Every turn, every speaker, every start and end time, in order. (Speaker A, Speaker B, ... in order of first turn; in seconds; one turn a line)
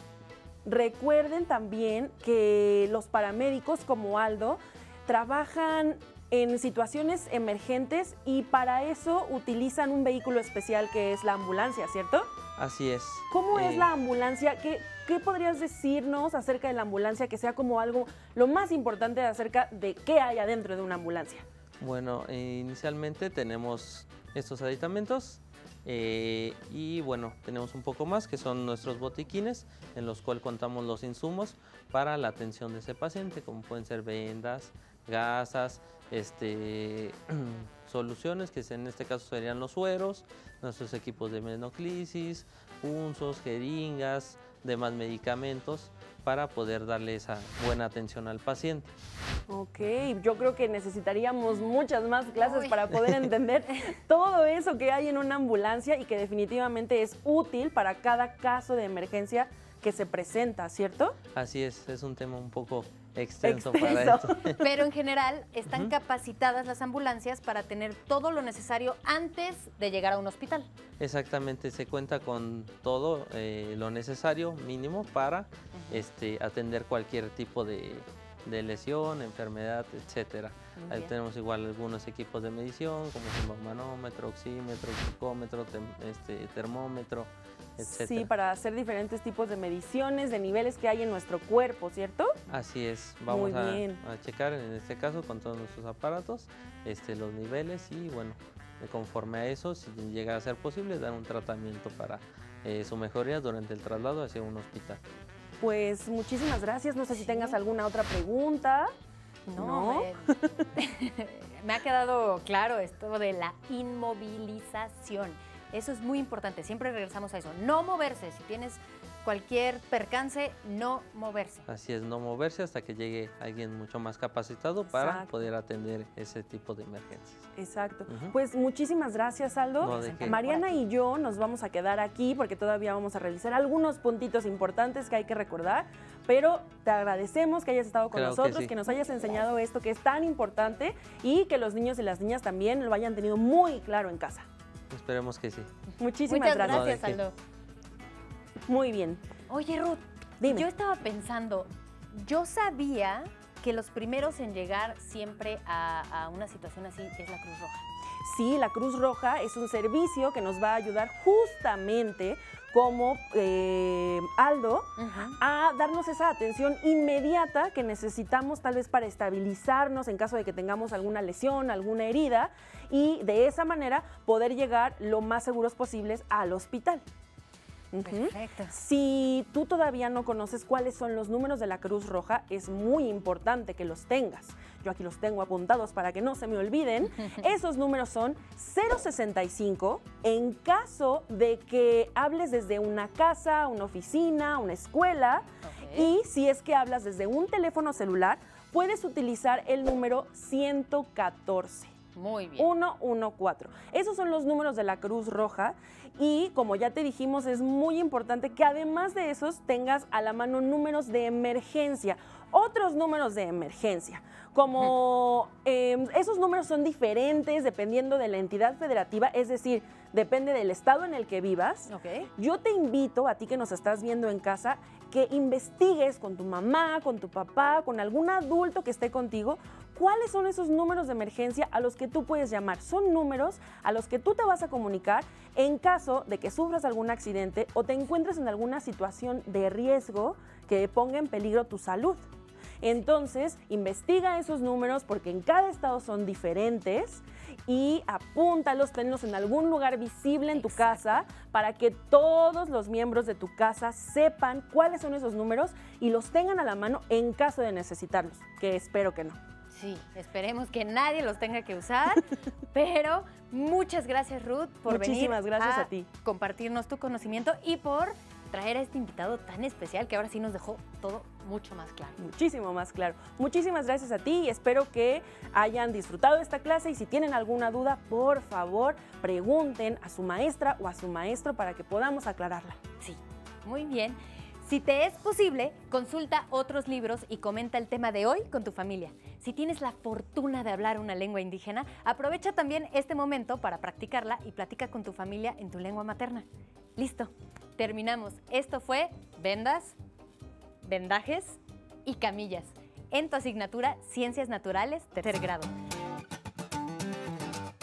Speaker A: 0.6-12.3
Speaker B: 12.6-13.9
Speaker A: 13.3-21.4
Speaker B: 21.8-48.9
Speaker A: 49.5-61.2
Speaker C: 52.4-52.9
Speaker C: 53.7-54.0
Speaker B: 61.4-64.6
Speaker A: 63.4-64.6
Speaker C: 64.5-70.7
Speaker B: 65.7-65.9
Speaker B: 71.0-88.3
Speaker C: 75.7-76.0
Speaker A: 87.8-92.4
Speaker B: 92.5-105.0
Speaker A: 93.3-94.0
Speaker A: 105.6-108.9
Speaker C: 107.1-107.6
Speaker C: 109.5-121.7
Speaker A: 109.6-110.7
Speaker B: 121.7-127.5
Speaker A: 124.9-125.3
Speaker A: 127.6-144.5
Speaker B: 128.1-128.3
Speaker B: 129.8-130.4
Speaker C: 129.8-130.8
Speaker B: 138.1-138.8
Speaker B: 144.9-145.7
Speaker A: 146.0-147.0
Speaker C: 146.3-147.4
Speaker B: 146.6-147.2
Speaker A: 148.7-149.2
Speaker C: 149.5-157.9
Speaker A: 150.4-150.7
Speaker A: 158.2-177.0
Speaker C: 165.0-165.4
Speaker A: 177.9-201.9
Speaker C: 178.0-178.8
Speaker C: 187.1-187.5
Speaker C: 195.6-196.1
Speaker C: 202.2-202.7
Speaker A: 202.6-242.2
Speaker C: 221.9-222.3
Speaker A: 242.8-259.4
Speaker C: 250.5-251.3
Speaker C: 259.7-272.3
Speaker A: 264.9-266.1
Speaker A: 272.2-282.8
Speaker C: 283.0-300.0
Speaker C: 300.8-305.7